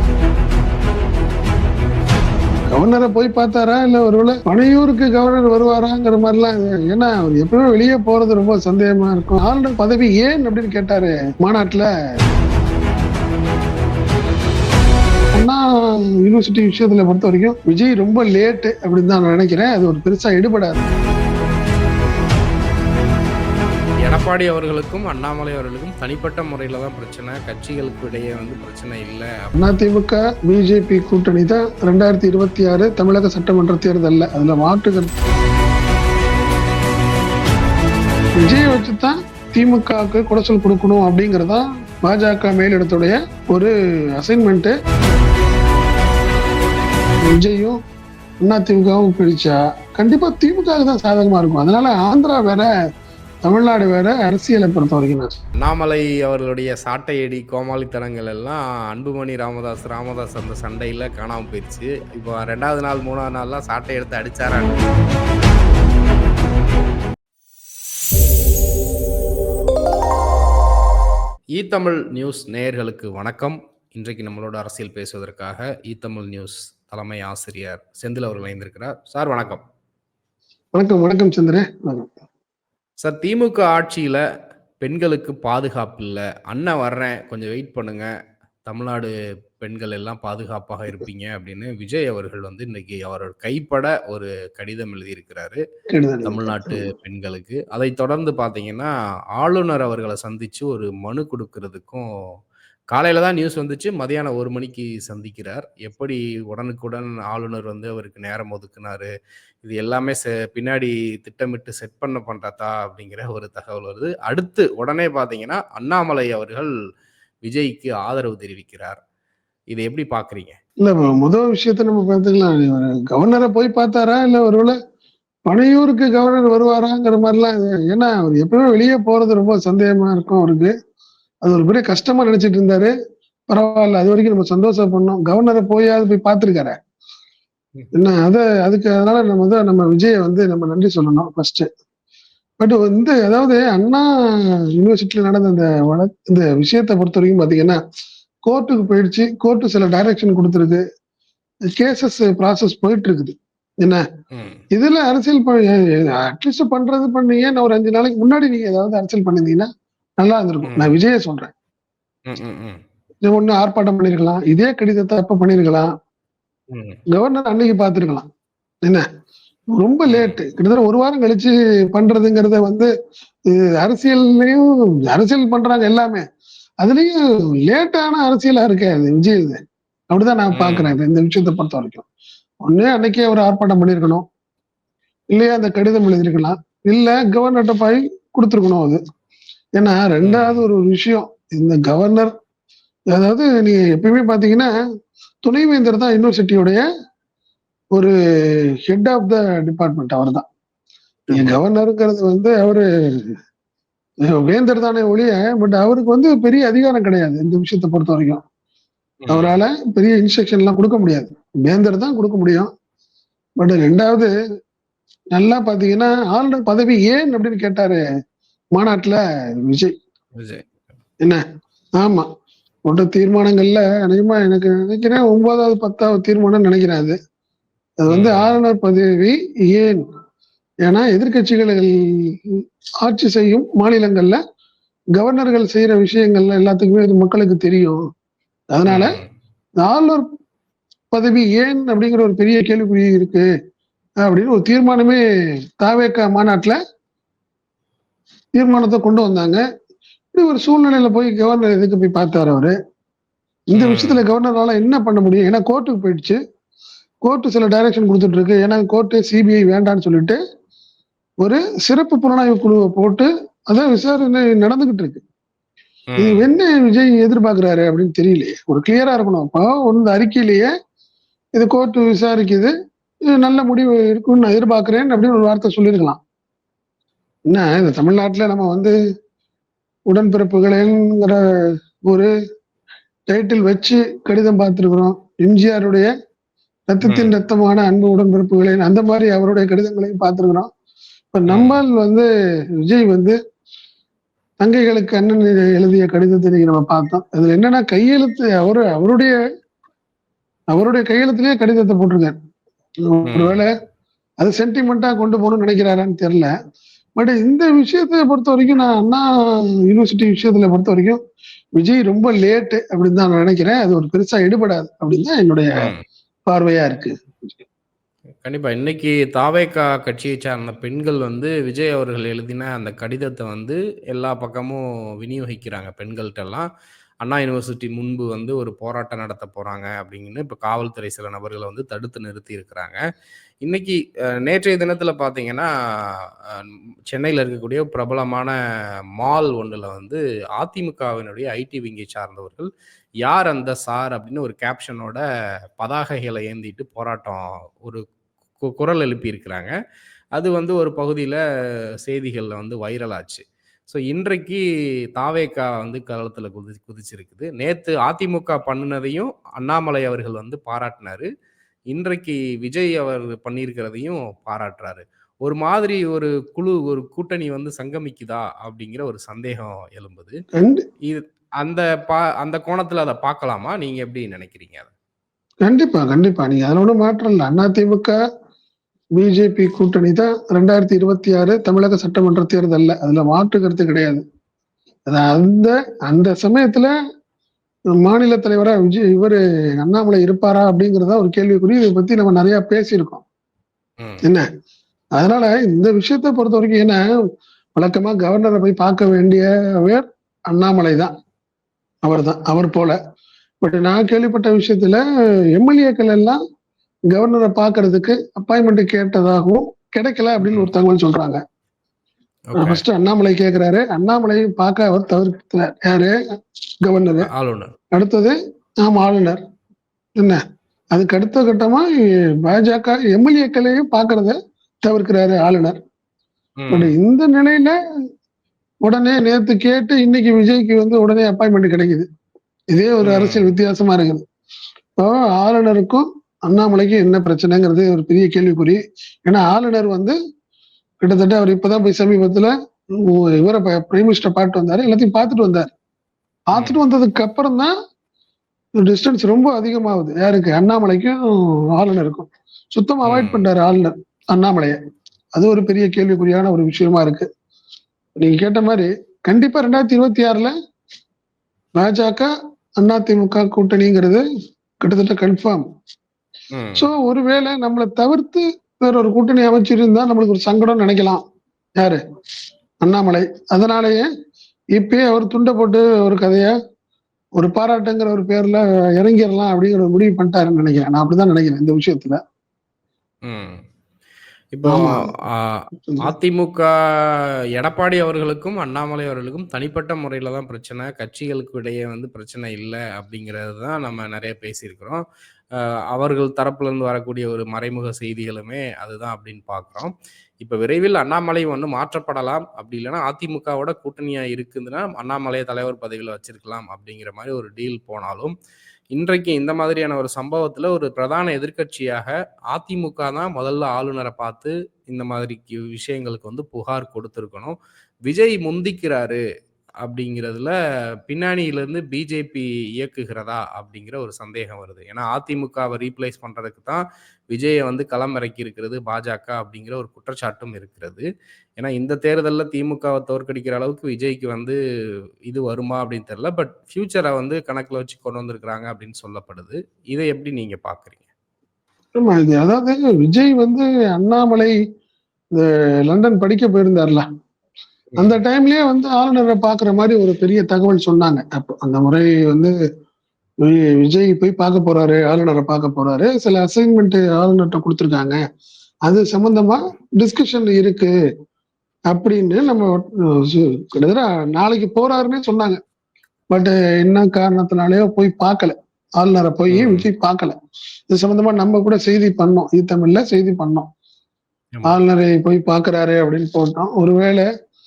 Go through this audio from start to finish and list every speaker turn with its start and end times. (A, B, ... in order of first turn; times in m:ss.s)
0:02.7-0:11.9 A
0:15.3-0:15.6 A
0:16.2-0:20.9 A
0:24.0-0:29.7 B
0:29.6-0:35.1 A
0:38.4-0:44.7 A
0:47.2-0:47.8 A
0:48.4-0:52.7 A
0:53.4-0:55.3 A
0:55.6-1:04.9 B
1:11.6-1:19.6 B
1:20.8-1:22.1 A
1:23.0-1:24.2 B
1:24.8-1:28.1 B
1:28.6-1:35.6 B
1:35.9-1:36.8 A
1:36.2-1:42.1 B
1:42.9-1:49.1 B
1:49.6-1:56.7 B
1:57.5-1:59.0 B
1:59.7-2:00.6 B
2:00.8-2:04.7 A
2:05.5-2:10.7 A
2:11.4-2:12.9 A
2:13.5-2:16.8 A
2:17.9-2:21.7 A
2:22.6-2:27.8 A
2:28.5-2:30.8 A
2:31.8-2:34.0 A
2:34.3-2:34.6 B
2:34.7-2:39.7 A
2:40.2-2:41.5 A
2:40.6-2:40.9 B
2:42.3-2:42.8 B
2:43.2-2:45.9 A
2:46.7-2:47.0 B
2:47.1-2:48.3 A
2:49.8-2:52.9 A
2:50.1-2:50.4 B
2:53.5-2:56.2 A
2:56.8-2:59.6 A
3:00.1-3:02.1 A
3:00.5-3:00.9 B
3:02.6-3:04.2 A
3:05.3-3:09.0 A
3:09.8-3:12.3 A
3:10.2-3:10.7 B
3:13.1-3:14.7 A
3:15.4-3:16.8 A
3:17.9-3:20.4 A
3:21.3-3:23.3 A
3:24.3-3:28.4 A
3:29.2-3:29.6 B
3:29.3-3:32.7 A
3:33.6-3:34.3 A
3:35.3-3:38.0 A
3:38.8-3:39.9 A
3:40.4-3:40.6 B
3:42.0-3:42.2 A
3:42.9-3:47.2 A
3:48.0-3:50.0 A
3:48.1-3:48.6 B
3:50.9-3:52.5 A
3:53.0-3:54.4 A
3:55.2-3:58.0 A
3:58.7-3:59.2 A
3:58.9-3:59.3 B
3:59.8-4:00.2 A
4:01.1-4:03.5 A
4:04.2-4:05.2 A
4:05.8-4:06.8 A
4:08.6-4:09.6 A
4:10.3-4:12.7 A
4:13.7-4:16.4 A
4:13.7-4:14.2 B
4:17.2-4:20.4 A
4:21.4-4:25.2 A
4:26.1-4:26.5 B
4:26.2-4:30.7 A
4:31.5-4:32.7 A
4:33.3-4:36.2 A
4:37.5-4:38.9 A
4:40.1-4:41.4 A
4:43.3-4:46.1 A
4:46.9-4:50.7 A
4:47.0-4:47.3 B
4:51.3-4:52.3 A
4:51.5-4:51.8 B
4:52.8-4:53.4 A
4:54.6-4:59.4 A
5:00.7-5:02.4 A
5:03.1-5:03.7 A
5:03.2-5:03.6 B
5:04.4-5:06.5 A
5:07.2-5:09.3 A
5:09.9-5:11.2 A
5:11.8-5:15.9 A
5:16.5-5:17.1 A
5:18.4-5:26.7 B
5:27.2-5:33.0 B
5:33.6-5:38.5 B
5:39.2-5:42.7 B
5:43.2-5:45.2 B
5:45.8-5:48.0 B
5:48.6-5:49.7 B
5:50.4-5:51.4 B
5:52.0-5:54.6 B
5:55.2-6:01.3 B
6:01.9-6:10.4 B
6:10.6-6:10.8 A
6:11.0-6:14.9 B
6:15.6-6:18.2 A
6:19.2-6:24.2 A
6:25.1-6:26.9 A
6:28.0-6:33.2 A
6:35.2-6:37.0 A
6:37.8-6:41.1 A
6:42.0-6:43.0 A
6:43.6-6:45.0 A
6:45.5-6:46.4 A
6:47.1-6:51.4 A
6:52.5-6:52.8 B
6:52.6-6:56.2 A
6:56.8-6:57.3 A
6:57.2-6:57.7 B
6:57.9-6:59.4 A
7:00.9-7:01.9 A
7:02.4-7:05.8 A
7:06.6-7:06.9 B
7:06.7-7:07.8 A
7:08.8-7:12.1 A
7:12.7-7:14.2 A
7:13.0-7:13.5 B
7:15.0-7:20.2 A
7:21.0-7:22.5 A
7:23.0-7:25.7 A
7:26.5-7:27.7 A
7:26.5-7:26.8 B
7:28.8-7:34.8 A
7:33.0-7:33.4 B
7:35.4-7:37.3 A
7:38.2-7:40.5 A
7:41.8-7:44.2 A
7:44.8-7:45.6 A
7:46.5-7:46.9 B
7:46.8-7:51.2 A
7:52.8-7:54.1 A
7:54.8-7:56.5 A
7:57.4-8:02.2 A
8:03.2-8:03.6 B
8:04.5-8:15.0 B
8:04.7-8:05.0 A
8:15.9-8:28.3 B
8:28.9-8:39.2 B
8:39.8-8:40.5 B
8:41.1-8:51.0 B
8:51.6-8:54.6 B
8:55.3-9:01.1 B
9:02.0-9:04.6 A
9:05.3-9:07.0 A
9:07.9-9:08.2 B
9:08.0-9:12.5 A
9:13.4-9:18.2 A
9:18.9-9:20.9 A
9:21.9-9:25.6 A
9:26.3-9:30.4 A
9:29.5-9:29.9 B
9:30.9-9:33.7 A
9:34.5-9:34.8 B
9:34.6-9:37.2 A